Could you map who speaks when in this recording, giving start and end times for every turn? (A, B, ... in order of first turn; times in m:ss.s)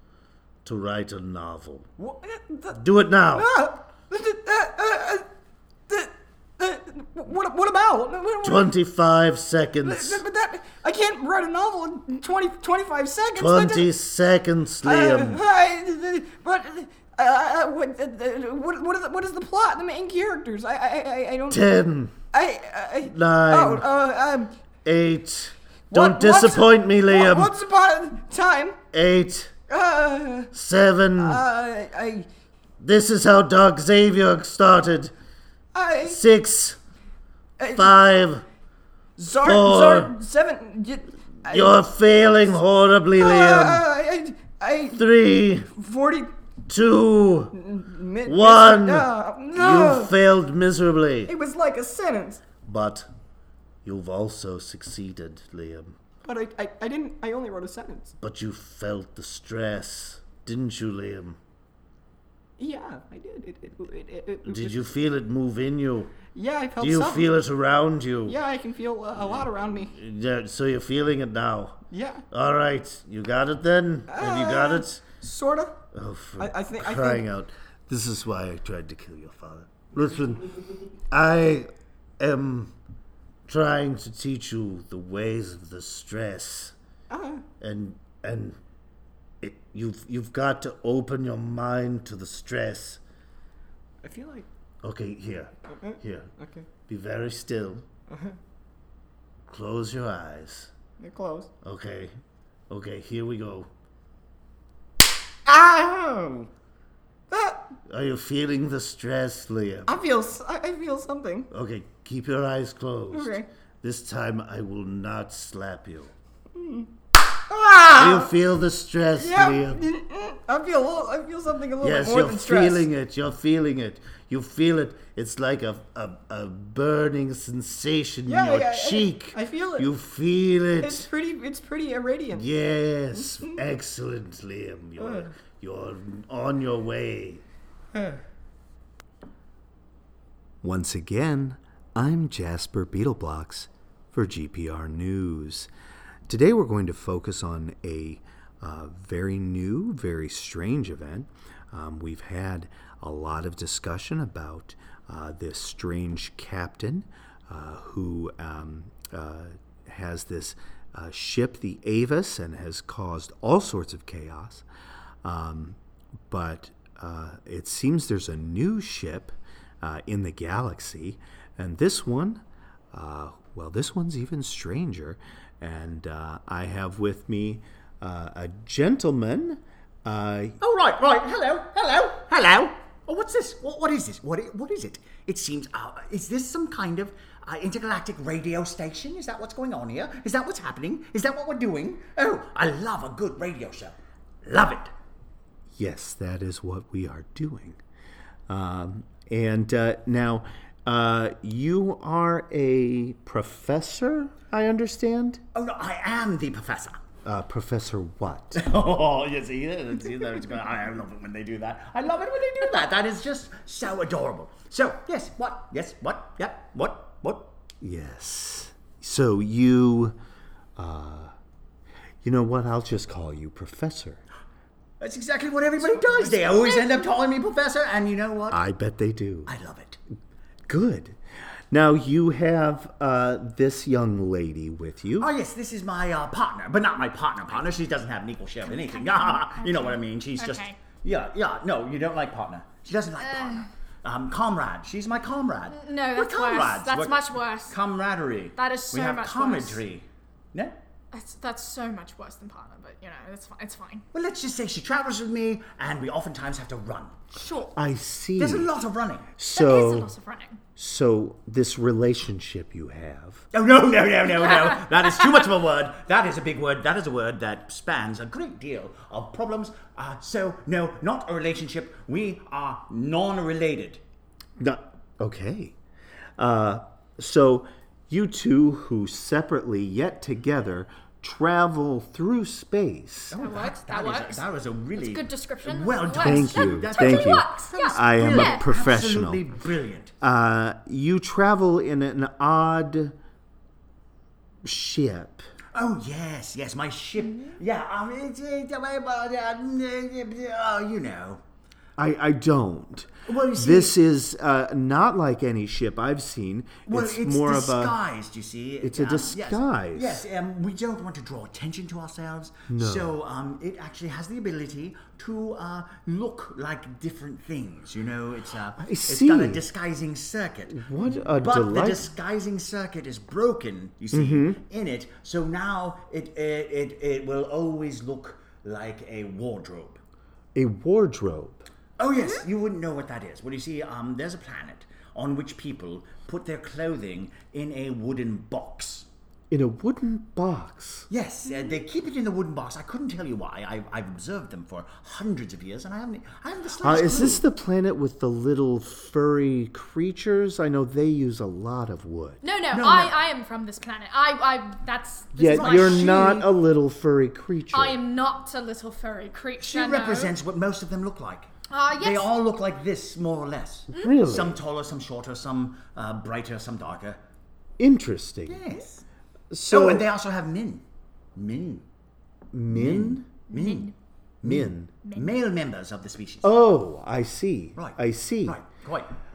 0:00.6-0:01.9 A
0:02.0-0:02.8 B
0:02.7-0:03.5 A
0:03.3-0:05.2 B
0:05.9-0:08.7 B
0:08.4-0:10.2 A
0:09.8-0:13.9 B
0:13.4-0:15.4 A
0:14.8-0:21.7 B
0:21.5-0:22.2 A
0:22.3-0:24.5 B
0:23.0-0:23.8 A
0:24.8-0:27.5 A
0:25.9-0:28.8 B
0:28.9-0:29.5 A
0:29.7-0:30.5 B
0:30.5-0:31.4 A
0:31.2-0:32.3 B
0:32.8-0:35.1 A
0:35.7-0:36.2 B
0:36.0-0:36.8 A
0:37.6-0:38.0 B
0:37.7-0:38.4 A
0:39.2-0:41.8 B
0:39.4-0:40.1 A
0:41.5-0:43.9 A
0:43.2-0:45.0 B
0:44.9-0:45.7 A
0:45.7-0:46.3 B
0:46.7-0:47.5 A
0:47.5-0:50.1 B
0:48.2-0:51.3 A
0:51.3-0:52.4 B
0:52.6-0:53.1 A
0:53.8-0:56.0 A
0:56.2-0:58.1 B
0:58.2-1:01.4 A
1:02.6-1:04.7 B
1:04.4-1:06.2 A
1:06.3-1:07.4 B
1:06.8-1:08.4 A
1:08.2-1:09.9 B
1:09.2-1:11.8 A
1:11.9-1:12.2 B
1:12.3-1:15.1 A
1:14.1-1:15.8 B
1:15.9-1:22.7 A
1:16.4-1:17.2 B
1:23.5-1:26.7 A
1:27.1-1:27.4 B
1:27.6-1:28.6 A
1:29.4-1:33.0 A
1:34.0-1:34.5 B
1:34.8-1:36.3 A
1:35.7-1:36.7 B
1:36.9-1:37.8 A
1:38.1-1:38.4 B
1:39.5-1:40.7 A
1:41.0-1:41.5 B
1:41.6-1:42.1 A
1:42.7-1:43.7 A
1:45.4-1:46.5 B
1:47.3-1:47.7 B
1:47.9-1:49.9 A
1:49.9-1:51.5 B
1:51.5-1:56.1 A
1:53.1-1:53.5 B
1:56.5-1:56.9 B
1:57.5-1:58.3 B
1:57.9-1:59.8 A
1:59.2-2:02.8 B
2:01.8-2:11.1 A
2:08.3-2:09.9 B
2:10.8-2:12.5 B
2:12.3-2:17.4 A
2:15.0-2:15.3 B
2:17.9-2:18.2 B
2:20.6-2:25.7 C
2:26.3-2:44.6 C
2:45.2-2:45.8 C
2:46.3-3:00.6 C
3:00.6-3:14.9 D
3:15.8-3:17.8 C
3:18.5-3:25.4 C
3:25.5-3:27.0 D
3:27.2-3:28.6 C
3:28.5-3:37.5 D
3:37.8-3:40.2 C
3:40.8-3:41.3 C
3:42.2-3:44.2 C
3:45.0-3:48.6 D
3:48.5-3:49.5 C
3:49.5-3:50.0 D
3:50.7-3:51.2 C
3:51.7-3:55.3 C
3:55.2-4:10.8 D
3:58.7-4:00.8 E
4:03.2-4:03.7 E
4:05.7-4:07.8 E
4:08.6-4:09.8 E
4:11.1-4:14.0 E
4:14.1-4:17.2 D
4:17.3-4:17.7 E
4:17.7-4:18.7 C
4:18.4-4:19.3 D
4:19.4-4:20.1 C
4:19.5-4:20.6 E
4:20.8-4:23.4 C
4:23.5-4:34.0 D
4:24.4-4:25.5 E
4:34.6-4:35.8 C
4:36.4-4:43.3 C
4:43.3-4:50.1 D
4:43.4-4:48.6 E
4:46.1-4:49.4 C
4:50.2-4:53.1 C
4:54.6-4:55.4 C
4:55.7-5:01.4 D
5:02.0-5:08.0 C
5:03.3-5:04.0 D
5:06.8-5:30.0 D
5:08.8-5:10.2 C
5:12.7-5:13.1 C
5:18.8-5:19.6 C
5:20.7-5:22.1 C
5:24.1-5:24.6 C
5:30.5-5:31.6 C
5:32.0-5:39.1 D
5:39.5-5:41.1 C
5:41.1-5:47.4 D
5:46.8-5:52.4 C
5:52.4-5:56.3 E
5:52.7-5:53.2 D
5:55.3-5:58.0 C
5:55.5-5:56.5 D
5:57.7-6:00.3 E
5:59.6-6:07.2 D
6:01.7-6:02.3 E
6:03.9-6:04.6 C
6:07.8-6:08.6 C
6:08.5-6:09.0 D
6:09.5-6:10.1 C
6:09.7-6:10.8 D
6:11.3-6:11.8 D
6:12.5-6:13.3 C
6:12.7-6:16.6 D
6:13.5-6:13.9 E
6:14.4-6:14.9 C
6:15.0-6:15.4 E
6:16.4-6:18.6 C
6:17.8-6:19.1 D